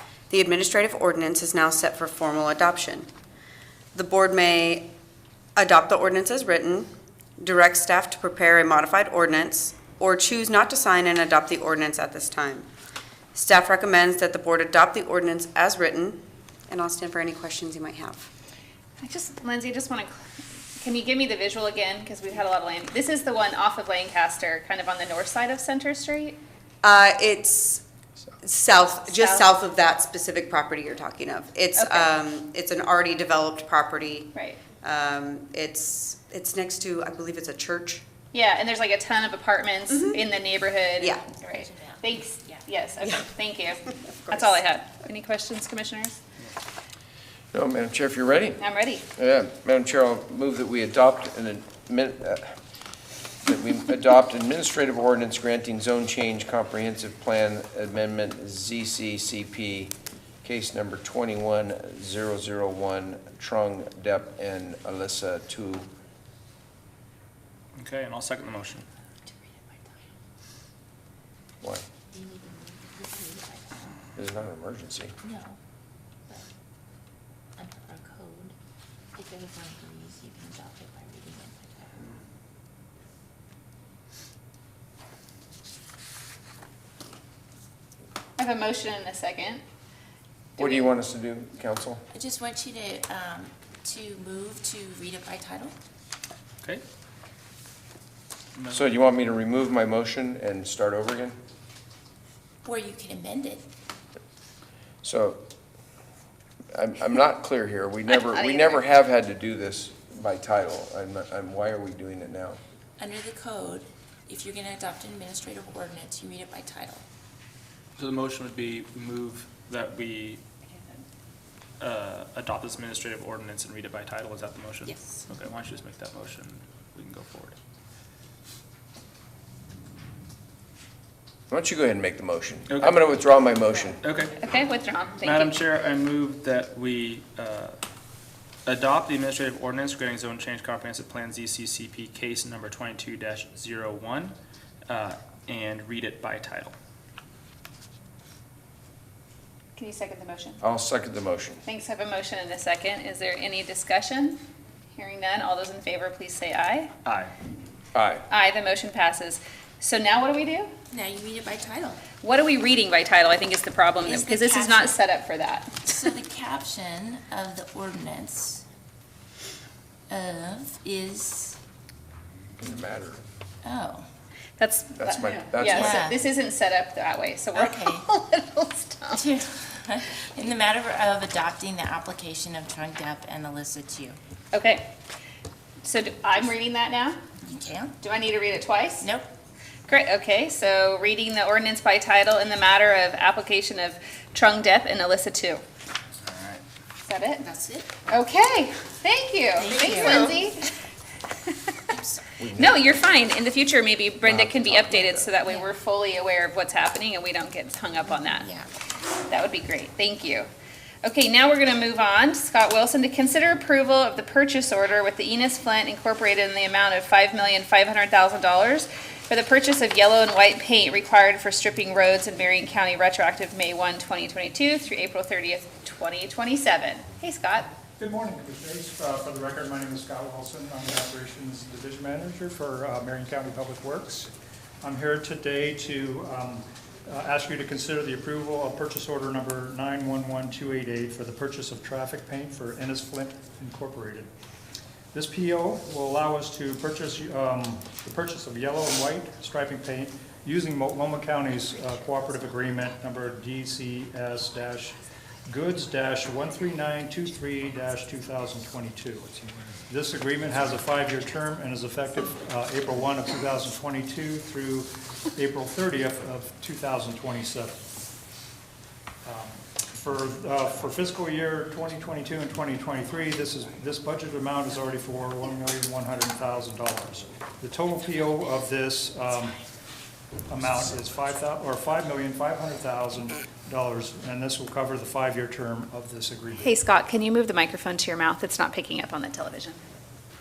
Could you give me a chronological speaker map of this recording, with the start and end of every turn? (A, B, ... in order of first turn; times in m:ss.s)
0:00.3-0:03.1 A
0:03.9-0:04.9 A
0:05.6-0:12.6 A
0:13.3-0:18.3 A
0:19.0-0:20.1 B
0:20.8-0:26.4 B
0:26.8-0:27.8 A
0:28.4-0:38.0 A
0:29.0-0:29.6 B
0:31.8-0:32.2 B
0:34.3-0:34.6 B
0:38.3-0:46.2 B
0:39.9-0:40.2 A
0:41.0-0:41.2 A
0:41.5-0:42.6 C
0:44.3-0:44.6 A
0:47.5-0:48.6 D
0:48.6-0:49.0 B
0:49.2-0:52.6 D
0:53.4-1:05.9 D
1:07.8-1:08.8 E
1:11.6-1:11.9 D
1:12.1-1:13.6 C
1:14.2-1:15.1 D
1:15.2-1:15.6 C
1:17.6-1:18.5 C
1:19.2-1:21.8 C
1:28.4-1:29.6 B
1:30.6-1:30.9 B
1:30.6-1:32.0 D
1:32.1-1:35.7 C
1:38.6-1:38.9 E
1:38.7-1:41.4 D
1:42.7-1:43.6 C
1:45.0-1:45.4 D
1:46.7-1:52.6 D
1:48.1-1:48.8 B
1:53.0-1:57.0 C
1:58.0-2:00.4 E
2:00.7-2:01.0 B
2:01.8-2:07.6 E
2:11.5-2:14.0 D
2:12.7-2:13.0 E
2:14.0-2:14.4 E
2:14.4-2:15.6 B
2:15.2-2:17.8 E
2:18.6-2:24.3 E
2:24.9-2:26.7 E
2:29.8-2:30.6 B
2:30.6-2:31.6 D
2:31.6-2:34.4 B
2:35.0-2:36.9 B
2:37.0-2:37.3 E
2:37.9-2:38.2 D
2:38.3-2:40.7 B
2:40.9-2:42.0 C
2:42.2-2:45.7 B
2:44.0-2:44.9 C
2:45.9-2:48.6 C
2:50.1-2:51.5 C
2:52.6-2:53.2 D
2:53.6-2:54.0 C
2:54.6-2:59.2 B
2:55.0-2:56.0 D
2:55.7-2:56.2 C
2:57.5-2:58.0 C
2:59.1-3:04.2 C
3:04.5-3:04.8 B
3:05.8-3:07.2 B
3:07.5-3:07.9 C
3:08.0-3:09.1 B
3:09.9-3:15.6 B
3:16.2-3:16.6 E
3:17.0-3:17.4 B
3:17.4-3:17.9 C
3:18.1-3:20.6 B
3:19.6-3:20.4 C
3:22.4-3:23.1 D
3:22.5-3:28.5 B
3:24.2-3:25.3 D
3:29.2-3:30.5 B
3:31.0-3:47.7 B
3:48.0-3:54.3 F
3:54.8-4:04.3 F
4:05.1-4:19.3 F
4:19.8-4:27.8 F
4:29.2-4:39.6 F
4:40.5-4:46.7 F
4:46.6-4:49.8 B